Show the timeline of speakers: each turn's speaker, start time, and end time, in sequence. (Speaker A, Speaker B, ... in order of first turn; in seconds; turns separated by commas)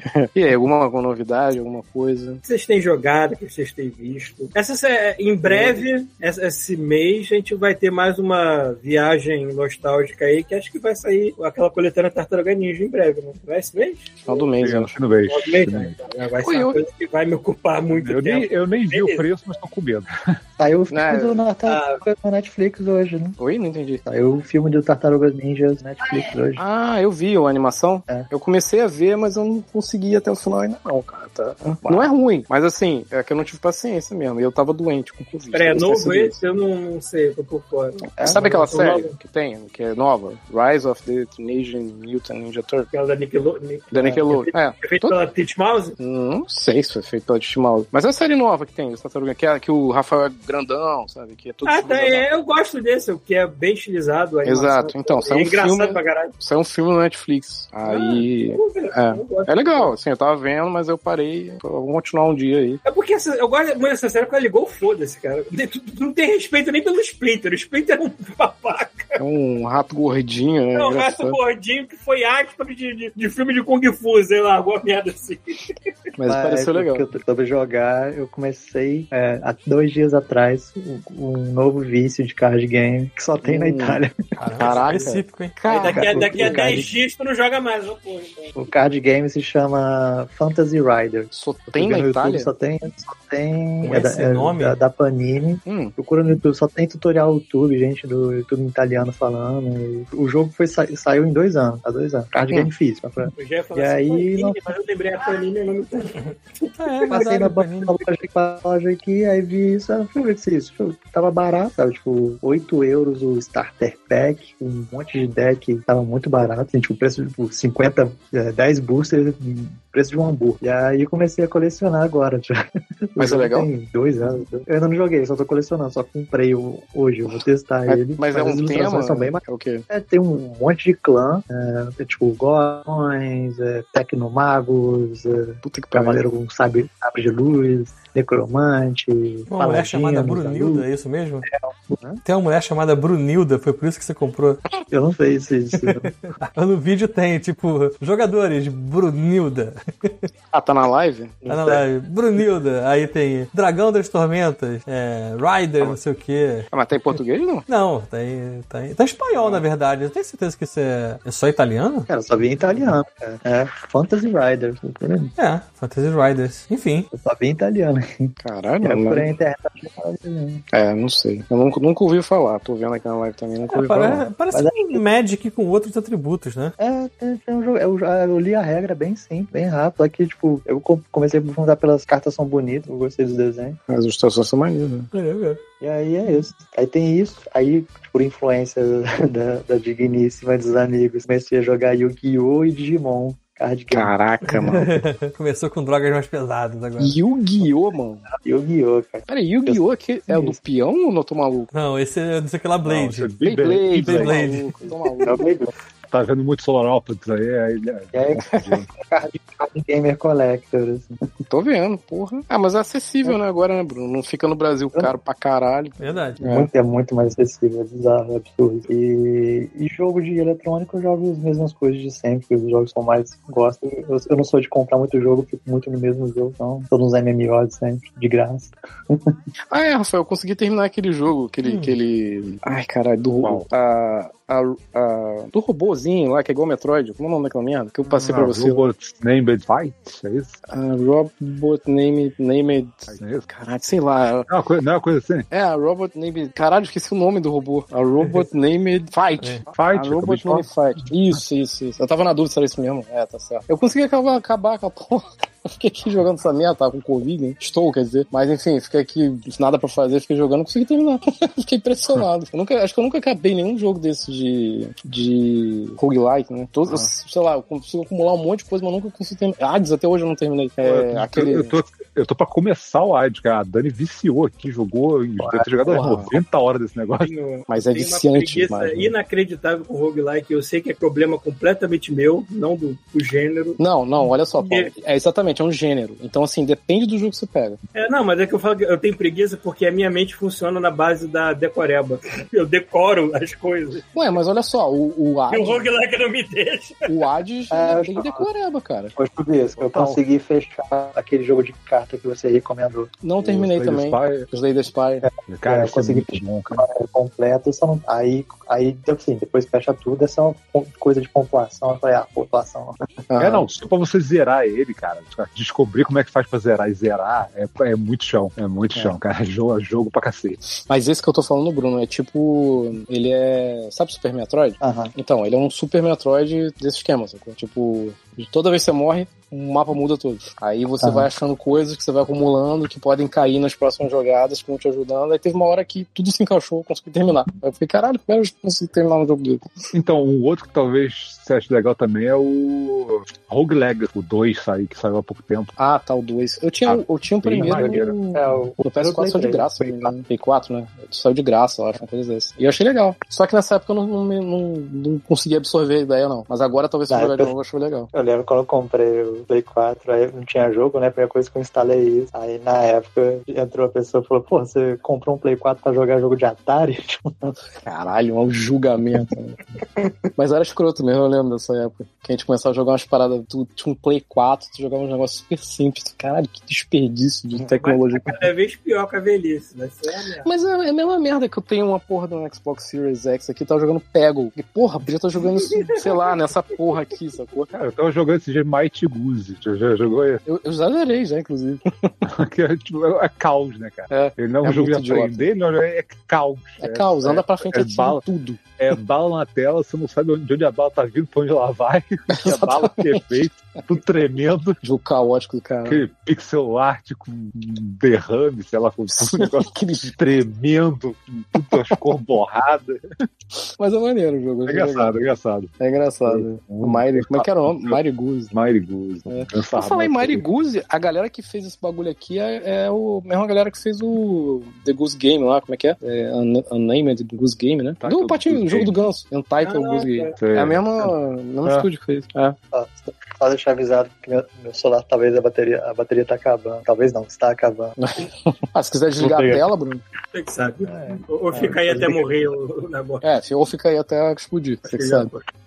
Speaker A: 0.1-2.4, Speaker B: 2.5-14.5, Speaker A: 5.5-5.8, Speaker A: 14.3-14.9, Speaker C: 14.6-16.0, Speaker B: 15.3-19.3, Speaker A: 16.4-16.8, Speaker C: 17.9-20.4, Speaker D: 20.6-23.4, Speaker A: 20.9-21.4, Speaker B: 21.7-22.0, Speaker A: 23.4-24.0, Speaker D: 24.1-26.6, Speaker A: 26.6-36.4, Speaker B: 35.5-39.1, Speaker D: 38.2-38.5, Speaker A: 38.2-42.9, Speaker B: 42.9-46.0, Speaker A: 43.9-45.1, Speaker D: 44.0-44.2, Speaker A: 46.0-52.3, Speaker B: 51.6-56.3, Speaker A: 54.5-62.8, Speaker B: 57.9-59.9, Speaker B: 62.9-69.2, Speaker A: 69.2-71.4, Speaker B: 70.8-75.7, Speaker A: 76.2-77.0, Speaker D: 76.3-84.9, Speaker A: 83.4-84.0, Speaker E: 84.4-85.6, Speaker A: 84.6-86.8, Speaker B: 85.7-88.5, Speaker D: 85.8-86.9, Speaker D: 88.6-104.7, Speaker A: 91.3-92.5, Speaker E: 93.8-94.8, Speaker A: 95.7-96.0, Speaker B: 103.4-107.3, Speaker E: 106.8-108.0, Speaker D: 107.1-140.9, Speaker A: 123.2-123.7, Speaker A: 127.9-129.9, Speaker A: 135.6-136.2, Speaker E: 139.5-141.5, Speaker D: 141.4-142.2, Speaker E: 142.2-144.6, Speaker D: 144.9-146.1, Speaker E: 145.7-150.2, Speaker A: 150.5-151.8, Speaker E: 151.5-162.1, Speaker A: 156.7-157.7, Speaker D: 162.1-165.3, Speaker E: 165.4-167.1, Speaker D: 167.1-170.6, Speaker A: 168.4-169.3, Speaker A: 170.7-174.2, Speaker E: 173.7-176.8, Speaker D: 174.5-175.0, Speaker D: 176.8-183.8, Speaker A: 183.9-185.1, Speaker E: 185.1-185.6, Speaker D: 185.8-194.2, Speaker A: 193.9-194.9, Speaker E: 194.5-197.2, Speaker A: 197.0-198.2, Speaker D: 198.3-200.6, Speaker A: 199.3-201.7, Speaker E: 201.7-203.3, Speaker C: 202.8-204.4, Speaker A: 203.4-205.5, Speaker E: 203.9-204.7, Speaker D: 204.9-205.7, Speaker C: 206.1-208.9, Speaker D: 208.1-211.2, Speaker A: 211.5-216.7, Speaker E: 216.0-216.4, Speaker D: 216.4-229.3, Speaker A: 229.7-238.9, Speaker E: 231.6-232.0, Speaker C: 238.1-240.6, Speaker A: 240.7-244.5, Speaker C: 243.1-243.5, Speaker C: 244.5-245.5, Speaker A: 245.5-271.8, Speaker C: 249.7-250.7, Speaker C: 270.8-277.3, Speaker D: 275.4-275.9, Speaker A: 275.9-276.4, Speaker B: 277.2-283.8, Speaker A: 277.7-279.1, Speaker A: 283.8-287.8, Speaker B: 284.6-284.9, Speaker B: 287.9-294.1, Speaker A: 294.1-295.9, Speaker B: 295.5-297.1, Speaker A: 297.1-299.1, Speaker D: 297.7-298.5, Speaker D: 299.2-303.1, Speaker C: 299.8-300.2, Speaker A: 303.2-305.2, Speaker C: 303.4-304.5, Speaker D: 305.2-313.0, Speaker C: 305.5-306.8, Speaker A: 313.3-313.6, Speaker C: 313.4-320.6, Speaker A: 320.9-339.7, Speaker D: 324.8-325.1, Speaker D: 331.0-331.3, Speaker C: 339.9-345.7, Speaker A: 345.8-358.1, Speaker C: 346.9-348.2, Speaker D: 347.6-350.1, Speaker D: 357.1-357.5, Speaker D: 358.1-367.5, Speaker A: 367.8-378.5, Speaker B: 377.7-380.5, Speaker A: 380.4-387.7, Speaker B: 385.6-386.3, Speaker C: 387.7-390.4, Speaker A: 390.5-392.2, Speaker C: 392.2-398.2, Speaker A: 394.1-395.5, Speaker A: 396.8-398.6, Speaker C: 398.8-404.8, Speaker A: 402.3-403.3, Speaker A: 404.8-406.0, Speaker C: 405.9-413.0, Speaker A: 409.1-410.1, Speaker A: 413.6-415.2, Speaker C: 414.7-415.7, Speaker A: 415.8-418.5, Speaker C: 416.2-418.0, Speaker C: 418.5-420.4, Speaker A: 419.3-432.6, Speaker C: 428.0-429.0, Speaker B: 429.6-430.4, Speaker C: 430.4-431.1, Speaker D: 432.7-437.9, Speaker A: 438.0-440.0, Speaker C: 439.2-439.6, Speaker B: 440.3-443.2, Speaker D: 440.8-442.3, Speaker A: 443.2-445.3, Speaker B: 444.9-445.4